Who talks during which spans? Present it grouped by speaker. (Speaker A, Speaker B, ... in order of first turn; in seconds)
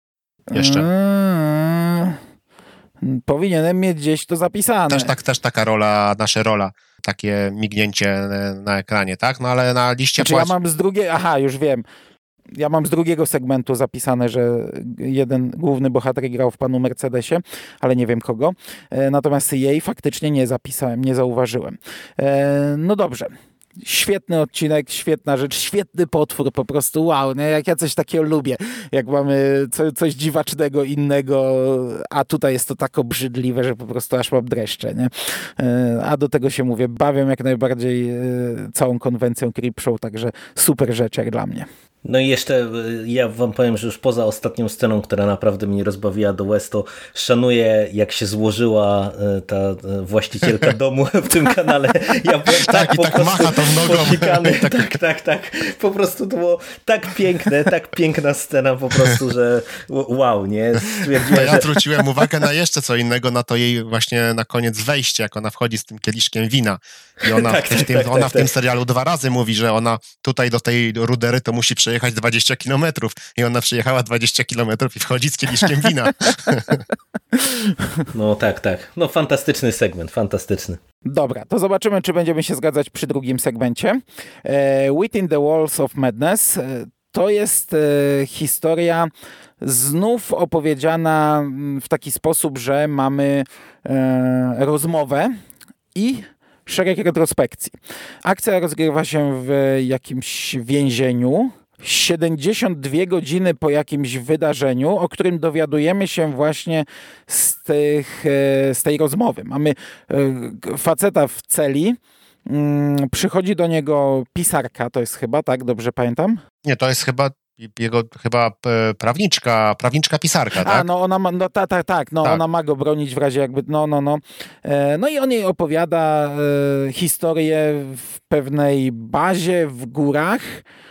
Speaker A: 0.5-2.2, 3.0-5.1, 10.2-11.8, 12.6-41.7, 81.1-95.3, 95.9-116.4, 120.6-130.6
Speaker B: 0.5-0.9, 4.9-10.5, 52.5-55.0, 61.0-76.8, 116.6-120.9
Speaker C: 42.0-62.1, 67.2-68.5, 78.1-80.8